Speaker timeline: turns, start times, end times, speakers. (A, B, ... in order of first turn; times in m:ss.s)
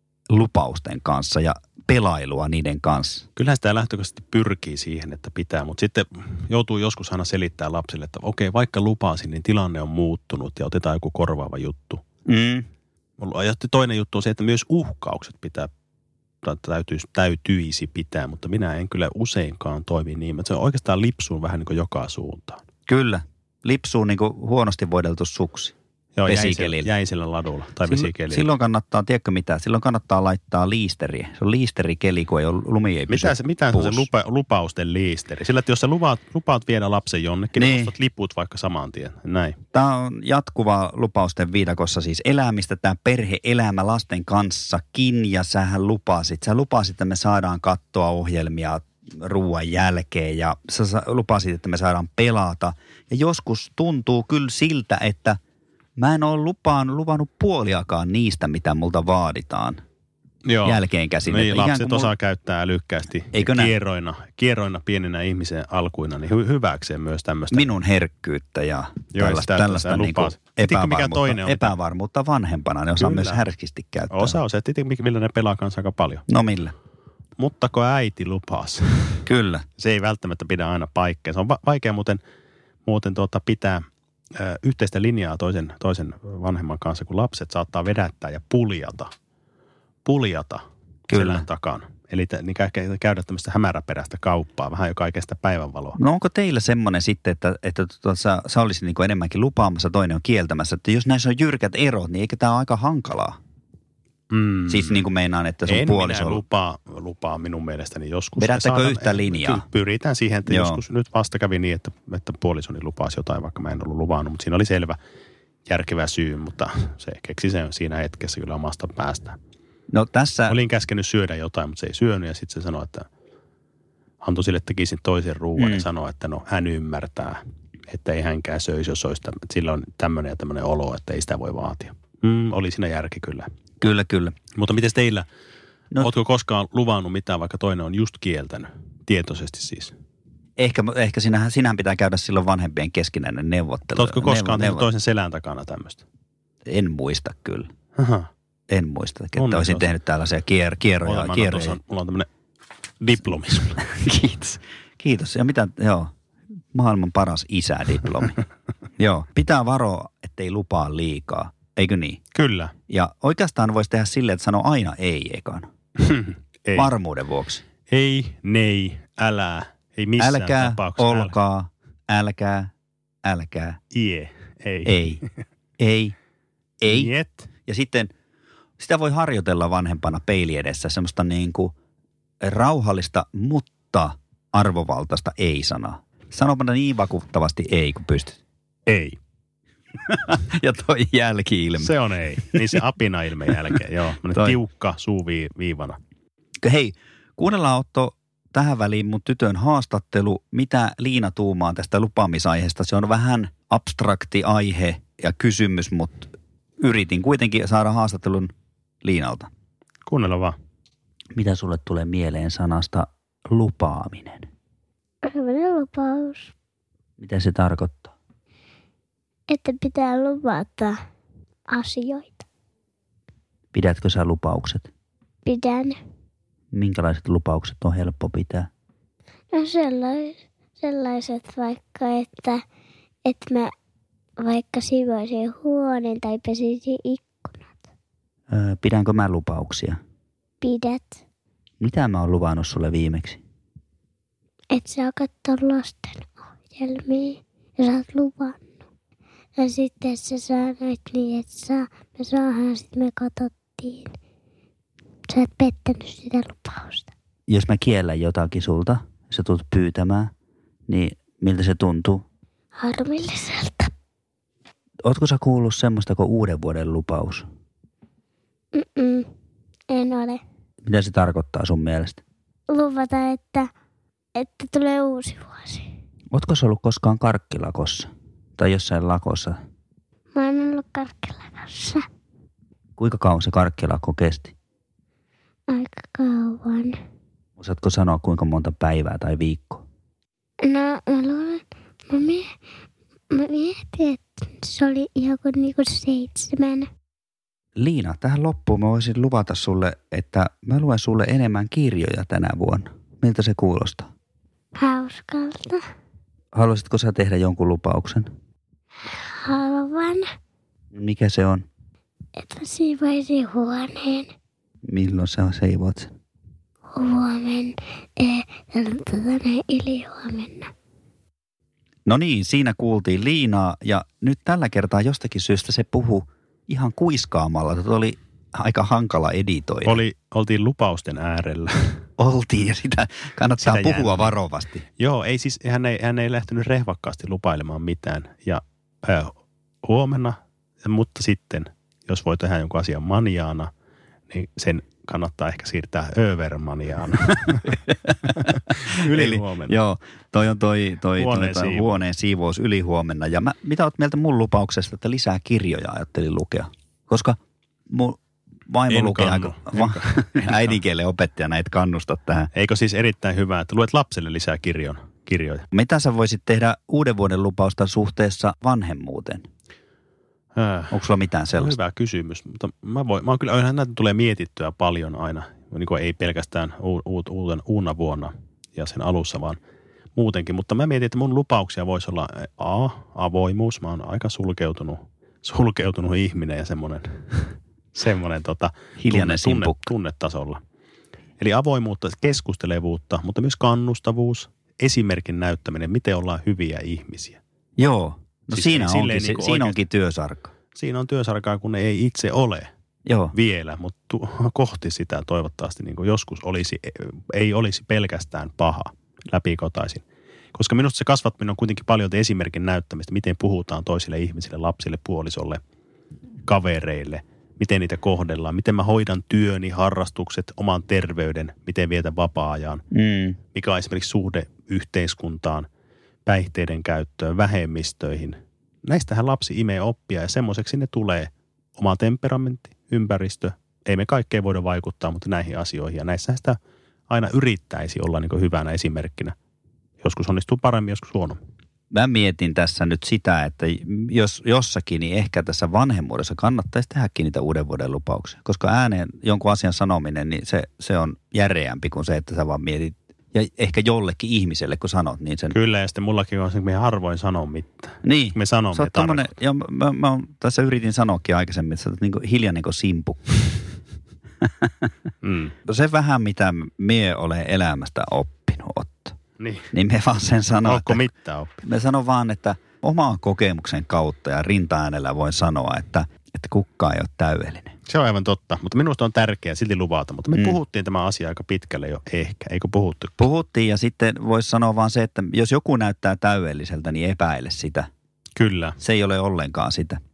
0:00.3-0:03.3 A
0:03.4-0:12.0 B
0:12.2-0:12.6 A
0:13.2-0:15.7 B
0:16.4-0:22.6 B
0:22.9-0:25.7 A
0:26.2-0:28.5 B
0:26.3-0:26.9 A
0:27.8-0:34.1 A
0:33.1-0:39.6 B
0:37.6-0:37.9 A
0:39.7-0:55.4 A
0:56.0-0:59.8 A
1:00.4-1:07.7 B
1:00.6-1:02.1 A
1:03.3-1:03.7 A
1:07.5-1:14.4 A
1:09.1-1:11.7 B
1:13.0-1:13.4 B
1:14.1-1:16.2 B
1:16.3-1:16.7 A
1:17.4-1:19.2 B
1:19.2-1:19.6 A
1:19.8-1:22.2 B
1:22.8-1:23.8 B
1:24.3-1:29.1 B
1:30.0-1:36.0 B
1:31.1-1:31.4 A
1:36.0-1:43.4 A
1:44.3-1:45.0 B
1:44.7-1:46.4 A
1:45.6-1:55.0 B
1:48.4-1:49.6 A
1:50.5-1:50.8 A
1:55.7-1:59.4 B
1:59.9-2:00.6 A
2:00.5-2:03.1 B
2:04.2-2:13.5 B
2:05.6-2:05.8 A
2:13.8-2:14.3 A
2:14.6-2:15.3 B
2:16.0-2:19.9 B
2:20.6-2:24.9 A
2:23.9-2:26.0 B
2:26.6-2:27.7 A
2:28.0-2:28.3 B
2:28.7-2:31.8 A
2:29.4-2:29.9 B
2:31.0-2:32.3 B
2:33.0-2:33.8 B
2:33.8-2:36.1 A
2:36.7-2:38.4 A
2:39.0-2:42.2 A
2:42.3-2:42.7 B
2:42.9-2:45.7 A
2:46.0-2:46.9 B
2:46.8-2:47.6 A
2:47.9-2:51.3 B
2:50.2-2:52.7 A
2:53.2-2:53.8 A
2:53.9-2:55.4 B
2:54.8-2:55.2 A
2:55.8-2:56.1 A
2:56.8-2:57.1 A
2:56.9-2:57.5 B
2:57.6-2:58.1 A
2:58.8-3:01.7 A
3:02.4-3:08.4 A
3:08.9-3:09.2 B
3:10.0-3:12.8 A
3:11.8-3:16.0 B
3:16.6-3:28.5 A
3:29.0-3:29.5 A
3:30.0-3:30.5 B
3:31.3-3:34.5 A
3:35.2-3:36.5 C
3:37.2-3:38.1 A
3:39.5-3:41.0 C
3:41.7-3:42.4 C
3:43.7-3:44.9 A
3:45.4-3:46.0 C
3:46.7-3:48.7 A
3:49.5-3:52.6 C
3:53.2-3:53.7 C
3:54.4-3:57.8 C
3:58.5-4:00.0 A
4:00.6-4:01.2 C
4:01.8-4:03.4 A
4:04.7-4:08.7 C
4:09.6-4:14.1 C
4:15.3-4:17.1 C
4:17.5-4:20.3 A
4:20.9-4:22.2 A
4:22.8-4:23.9 C
4:25.0-4:27.5 A
4:28.7-4:29.3 C
4:29.9-4:30.4 C
4:30.8-4:32.2 A
4:32.7-4:33.7 C
4:34.3-4:35.9 C
4:36.3-4:39.6 A
4:40.3-4:42.0 C
4:43.0-4:44.5 A
4:45.7-4:47.0 C
4:47.6-4:49.8 A
4:50.6-4:52.5 C
4:53.3-4:56.9 C
4:57.8-5:04.1 A
5:04.7-5:05.8 C
5:06.5-5:08.3 A
5:09.1-5:10.3 C
5:10.9-5:11.7 A
5:12.4-5:14.3 C
5:14.9-5:16.1 A
5:16.9-5:20.7 C
5:22.0-5:30.0 A
5:29.8-5:32.0 B
5:32.2-5:34.8 A
5:33.6-5:34.3 B
5:35.0-5:43.7 B
5:44.3-5:49.8 B
5:47.7-6:02.5 A
5:51.2-5:52.0 B
5:58.9-6:00.8 B
6:02.5-6:05.6 B
6:05.7-6:09.4 A
6:10.6-6:11.0 B
6:10.9-6:11.8 A
6:11.5-6:19.6 B
6:20.2-6:30.6 B
6:29.0-6:29.9 A
6:31.4-6:37.4 B
6:37.8-6:40.5 A
6:38.5-6:39.8 B
6:40.7-6:42.7 B
6:43.0-6:43.3 A
6:43.3-6:55.6 B
6:56.4-7:02.8 B
7:02.9-7:03.4 A
7:03.5-7:05.7 B
7:06.2-7:16.6 B
7:17.1-7:19.3 B
7:20.0-7:21.4 B
7:21.9-7:35.5 A
7:35.5-7:39.3 B
7:38.0-7:43.6 A
7:44.4-7:44.9 A
7:45.2-7:45.5 B
7:45.6-7:49.2 A
7:49.4-7:49.7 B
7:49.7-7:51.0 A
7:50.6-7:51.6 B
7:51.6-7:57.7 A
7:57.9-8:03.2 B
8:03.2-8:07.9 A
8:08.4-8:08.8 B
8:08.8-8:10.0 A